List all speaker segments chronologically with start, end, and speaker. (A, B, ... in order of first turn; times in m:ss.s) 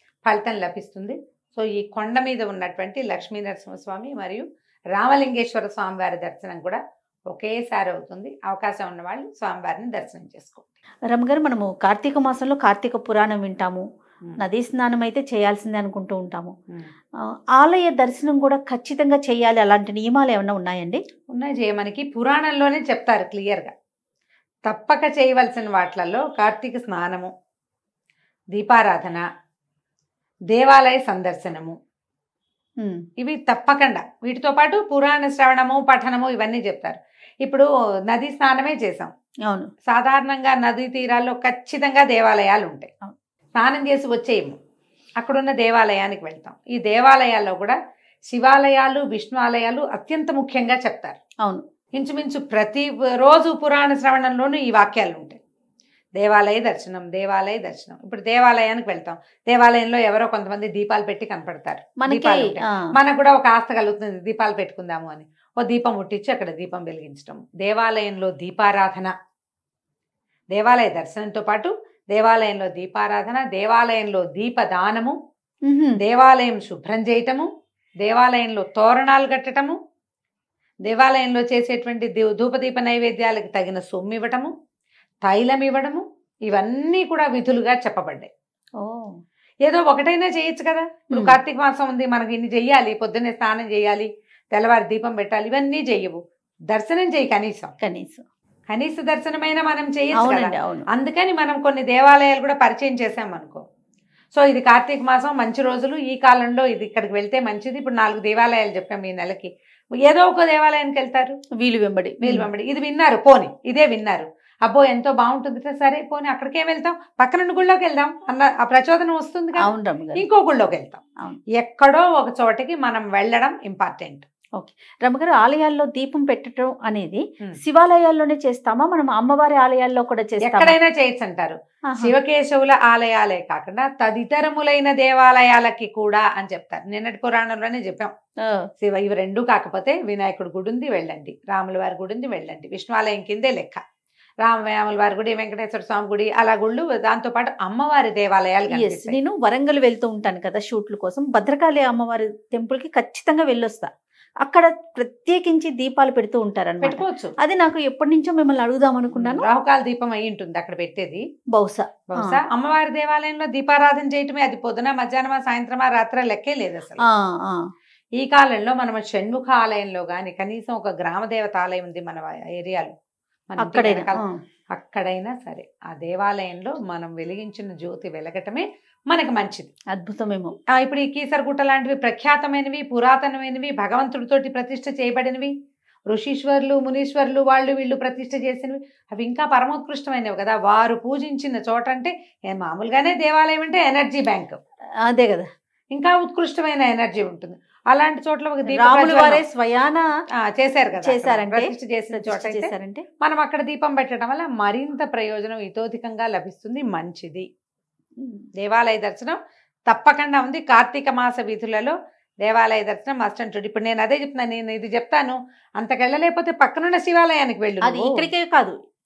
0:00.3-0:10.7 A
0:11.1-0:13.8 B
0:14.4-0:16.5 B
0:17.6-0:21.0 B
0:21.3-0:23.7 A
0:24.7-0:27.3 A
0:28.5-0:29.2 A
0:30.5-0:31.7 A
0:33.2-0:39.1 A
0:39.9-0:42.9 A
0:43.6-0:44.6 A
0:45.2-0:47.8 A
0:48.3-0:51.2 A
0:52.0-0:55.4 A
0:56.2-1:09.1 A
1:02.0-1:02.8 B
1:10.5-1:15.2 A
1:15.7-1:16.0 B
1:16.0-1:17.5 A
1:18.0-1:19.8 A
1:20.9-1:24.5 A
1:25.2-1:28.3 A
1:28.8-1:29.1 B
1:29.7-1:36.2 A
1:31.1-1:31.4 B
1:36.7-1:37.7 A
1:37.8-1:38.2 B
1:38.7-1:43.6 A
1:40.2-1:40.9 B
1:44.3-1:49.5 A
1:50.1-1:51.4 A
1:51.6-1:52.5 B
1:52.2-1:59.7 A
1:59.6-2:00.2 B
2:00.2-2:01.0 A
2:01.6-2:04.3 A
2:04.6-2:10.8 B
2:10.4-2:18.1 A
2:11.9-2:12.2 B
2:18.8-2:23.8 A
2:24.4-2:29.2 A
2:28.7-2:33.9 B
2:34.4-2:39.5 B
2:36.8-2:37.3 A
2:39.1-2:41.2 A
2:41.5-2:42.4 B
2:42.1-2:47.0 A
2:47.1-2:47.6 B
2:48.2-2:52.9 A
2:53.5-2:54.2 A
2:53.6-2:54.4 B
2:54.8-2:59.7 A
2:59.9-3:00.6 B
3:00.8-3:05.5 A
3:06.1-3:14.6 A
3:15.0-3:15.5 B
3:15.9-3:19.4 A
3:18.6-3:20.0 B
3:20.5-3:27.5 A
3:21.0-3:23.0 B
3:28.2-3:28.5 B
3:28.6-3:29.4 A
3:29.9-3:38.2 A
3:37.8-3:38.8 B